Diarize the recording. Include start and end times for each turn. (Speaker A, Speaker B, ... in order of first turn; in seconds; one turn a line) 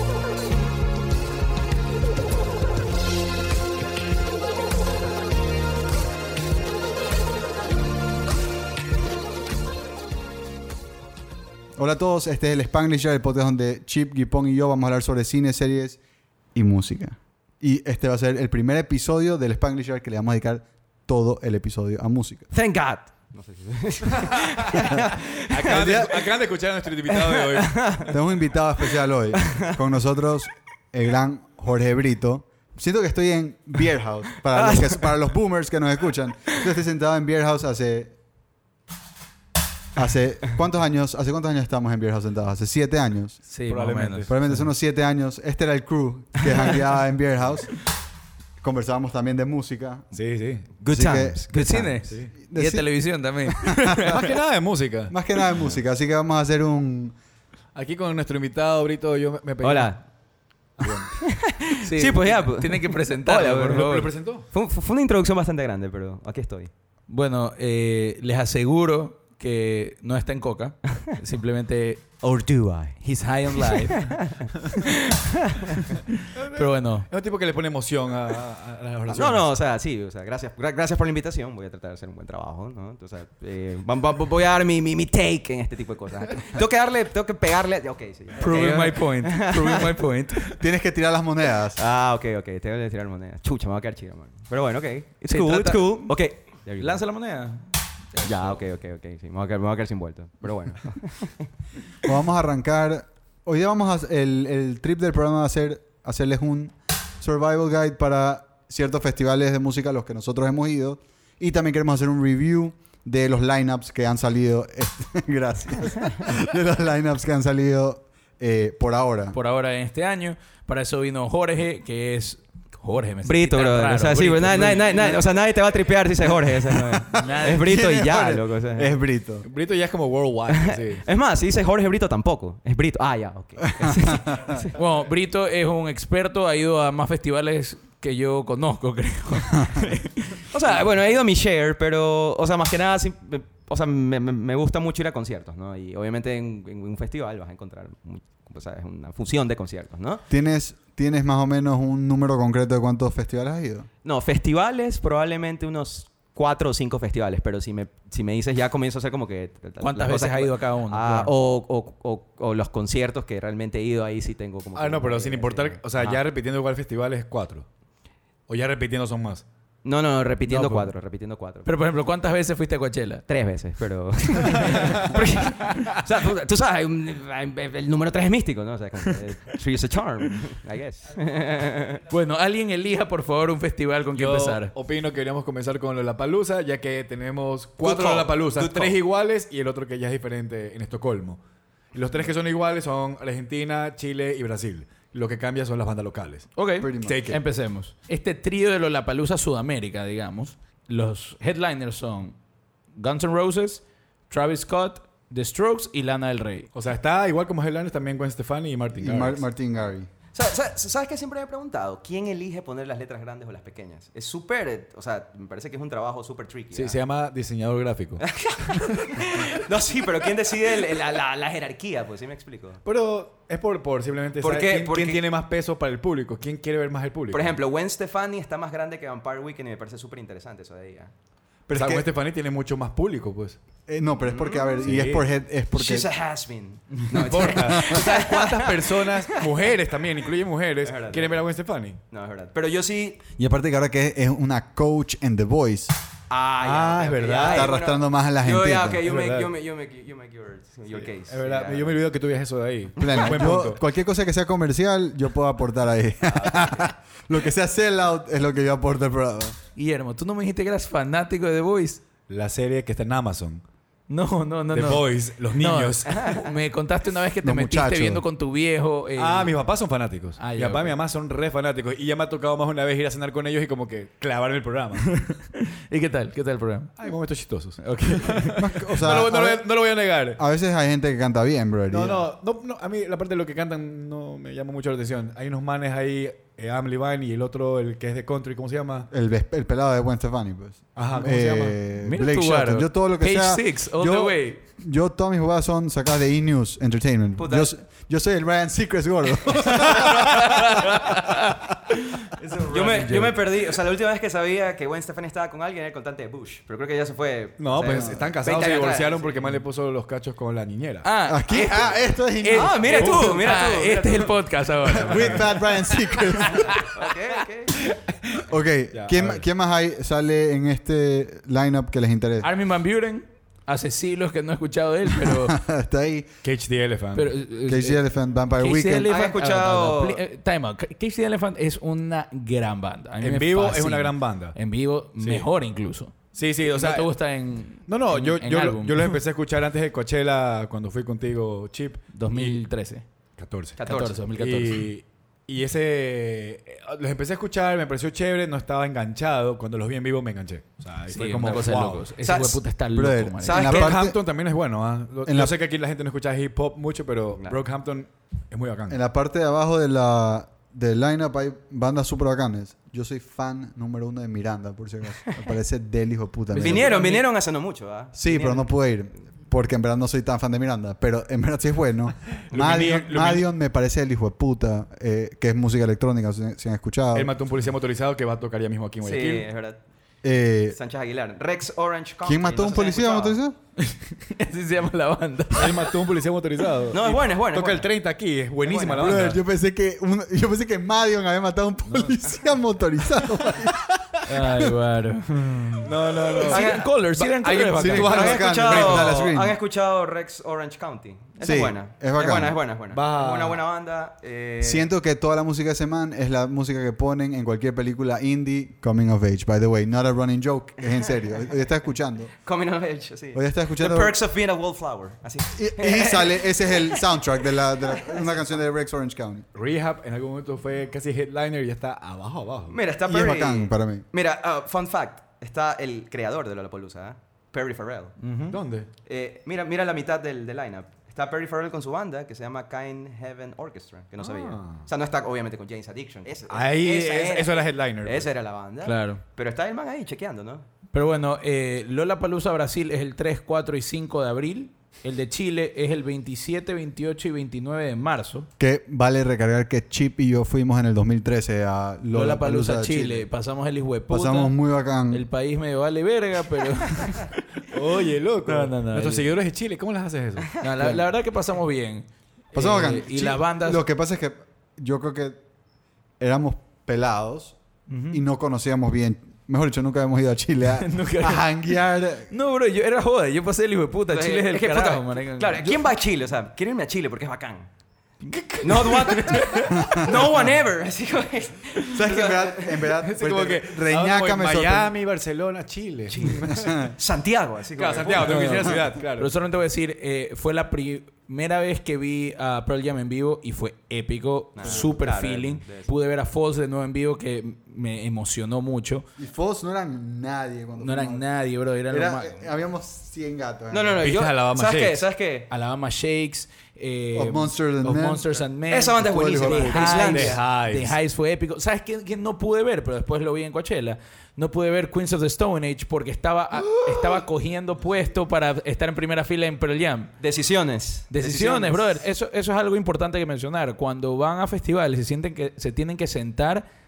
Speaker A: 11.8-16.0
Speaker A: 16.6-22.5
Speaker B: 22.5-26.1
Speaker C: 24.2-24.9
Speaker C: 25.5-27.8
Speaker A: 25.7-26.2
Speaker B: 27.1-28.2
Speaker A: 28.1-38.1
Speaker B: 29.4-29.8
Speaker B: 34.5-35.1
Speaker A: 40.0-43.5
Speaker D: 43.5-44.3
Speaker C: 43.7-44.7
Speaker A: 44.3-47.8
Speaker A: 48.6-50.1
Speaker C: 50.1-50.7
Speaker B: 50.8-51.9
Speaker A: 50.9-52.9
Speaker D: 51.5-54.2
Speaker C: 52.0-52.3
Speaker A: 53.5-54.3
Speaker C: 53.9-55.1
Speaker A: 55.1-57.2
Speaker C: 57.7-60.0
Speaker B: 59.6-60.0
Speaker C: 60.8-61.3
Speaker B: 61.1-66.7
Speaker D: 61.8-64.1
Speaker C: 63.4-64.5
Speaker D: 67.1-72.0
Speaker B: 72.2-73.0
Speaker D: 73.0-74.3
Speaker B: 73.6-75.9
Speaker C: 76.3-79.5
Speaker D: 76.5-77.1
Speaker B: 79.1-89.9
Speaker D: 88.4-90.6
Speaker C: 88.5-89.0
Speaker A: 90.5-91.8
Speaker B: 91.8-97.0
Speaker D: 95.3-96.2
Speaker D: 96.8-98.6
Speaker B: 98.2-101.5
Speaker A: 102.0-119.4
Speaker D: 119.3-125.1
Speaker B: 123.2-128.9
Speaker C: 124.5-125.1
Speaker A: 126.4-129.5
Speaker D: 127.2-127.8
Speaker C: 129.4-131.1
Speaker B: 130.5-134.8
Speaker A: 133.7-134.6
Speaker D: 134.8-140.5
Speaker B: 140.5-150.2
Speaker A: 150.3-153.9
Speaker B: 154.0-166.2
Speaker D: 159.8-161.3
Speaker C: 164.8-167.7
Speaker C: 168.5-169.4
Speaker B: 169.8-171.7
Speaker D: 171.7-173.2
Speaker B: 173.3-182.0
Speaker D: 182.1-184.7
Speaker C: 184.2-191.4
Speaker B: 187.8-189.0
Speaker C: 191.9-196.5
Speaker D: 196.6-202.3
Speaker A: 196.8-197.4
Speaker D: 203.0-206.7
Speaker C: 206.7-209.4
Speaker A: 208.9-210.1
Speaker B: 210.3-217.0
Speaker C: 216.7-218.9
Speaker B: 218.2-222.8
Speaker C: 222.8-227.6
Speaker B: 224.4-225.2
Speaker B: 227.3-231.1
Speaker A: 231.7-232.1
Speaker C: 231.7-233.6
Speaker A: 233.9-236.1
Speaker B: 234.2-234.8
Speaker C: 234.8-235.3
Speaker B: 235.7-239.6
Speaker C: 237.1-242.0
Speaker B: 240.8-241.4
Speaker B: 242.1-243.2
Speaker A: 243.4-245.9
Speaker B: 246.3-252.0
Speaker C: 246.6-247.7
Speaker A: 247.4-249.0
Speaker C: 249.0-249.5
Speaker C: 250.9-253.8
Speaker A: 253.0-259.6
Speaker B: 253.0-253.4
Speaker B: 256.3-256.8
Speaker D: 259.8-262.0
Speaker C: 262.3-263.6
Speaker D: 264.1-269.6
Speaker C: 264.7-266.1
Speaker B: 266.1-266.6
Speaker A: 267.4-268.2
Speaker C: 269.2-275.2
Speaker D: 270.4-271.0
Speaker D: 275.1-277.0
Speaker C: 277.0-280.4
Speaker D: 277.8-278.7
Speaker A: 278.6-279.7
Speaker A: 280.3-282.3
Speaker C: 281.9-289.1
Speaker A: 289.1-301.1
Speaker C: 291.0-291.8
Speaker D: 292.0-294.6
Speaker B: 297.4-297.7
Speaker D: 299.9-302.3
Speaker C: 302.4-303.4
Speaker B: 302.7-309.6
Speaker C: 307.6-311.1
Speaker A: 307.9-308.2
Speaker D: 311.0-316.9
Speaker A: 311.2-313.4
Speaker B: 312.5-314.3
Speaker A: 314.9-316.8
Speaker C: 314.9-315.5
Speaker B: 316.6-317.8
Speaker C: 317.9-319.4
Speaker A: 318.5-322.5
Speaker D: 322.4-325.6
Speaker A: 325.2-326.3
Speaker C: 326.4-327.3
Speaker D: 327.1-328.0
Speaker A: 327.7-329.1
Speaker D: 328.6-339.2
Speaker B: 329.1-330.2
Speaker C: 333.2-334.6
Speaker C: 335.2-335.5
Speaker C: 336.3-337.1
Speaker C: 337.9-342.6
Speaker D: 342.1-343.1
Speaker C: 343.4-343.8
Speaker B: 343.8-344.2
Speaker D: 343.8-344.9
Speaker C: 344.3-352.1
Speaker D: 351.1-353.6
Speaker B: 352.2-352.6
Speaker A: 352.9-354.2
Speaker B: 353.4-354.0
Speaker C: 353.6-359.0
Speaker A: 355.2-355.5
Speaker A: 358.9-367.0
Speaker C: 366.5-367.2
Speaker B: 366.6-368.7
Speaker A: 368.1-377.3
Speaker C: 372.5-373.5
Speaker C: 377.1-379.5
Speaker B: 379.0-379.8
Speaker A: 380.2-380.8
Speaker B: 380.7-383.4
Speaker A: 382.2-383.6
Speaker D: 383.8-386.1
Speaker C: 385.5-389.4
Speaker B: 386.9-387.9
Speaker B: 388.6-389.4
Speaker A: 388.9-394.7
Speaker C: 391.9-392.2
Speaker D: 394.2-398.3
Speaker C: 395.8-399.1
Speaker B: 396.5-396.9
Speaker A: 397.6-399.6
Speaker B: 397.8-404.9
Speaker A: 401.4-402.6
Speaker C: 402.9-403.6
Speaker A: 404.6-412.3
Speaker B: 412.4-417.0
Speaker A: 413.3-414.1
Speaker A: 415.6-419.4
Speaker B: 417.9-418.2
Speaker C: 419.5-422.8
Speaker B: 422.7-428.2
Speaker A: 423.1-424.1
Speaker D: 428.2-428.6
Speaker C: 428.5-428.9
Speaker B: 429.1-440.7
Speaker C: 434.2-434.8
Speaker C: 436.5-438.3
Speaker D: 438.9-439.2
Speaker D: 440.9-448.5
Speaker A: 448.6-453.3
Speaker D: 452.1-454.5
Speaker A: 454.1-455.2
Speaker D: 455.1-457.4
Speaker C: 457.7-460.6
Speaker D: 458.4-459.3
Speaker D: 460.6-463.8
Speaker A: 462.5-465.4
Speaker A: 466.2-467.6
Speaker D: 467.9-468.2
Speaker A: 468.1-472.3
Speaker D: 470.8-471.5
Speaker D: 472.3-475.6
Speaker B: 474.1-477.7
Speaker D: 478.2-480.2
Speaker C: 478.5-479.8
Speaker B: 478.6-482.9
Speaker A: 481.9-484.9
Speaker C: 483.0-486.7
Speaker B: 486.1-488.8
Speaker A: 486.5-486.9
Speaker C: 487.8-489.3
Speaker D: 488.2-499.1
Speaker B: 494.6-495.9
Speaker A: 499.2-501.2
Speaker D: 500.8-502.4
Speaker A: 501.9-504.1
Speaker B: 503.7-505.5
Speaker C: 504.0-505.1
Speaker D: 505.5-520.1
Speaker A: 507.1-508.3
Speaker B: 508.7-510.4
Speaker A: 508.9-510.0
Speaker C: 509.8-511.0
Speaker B: 520.2-522.0
Speaker D: 521.1-526.6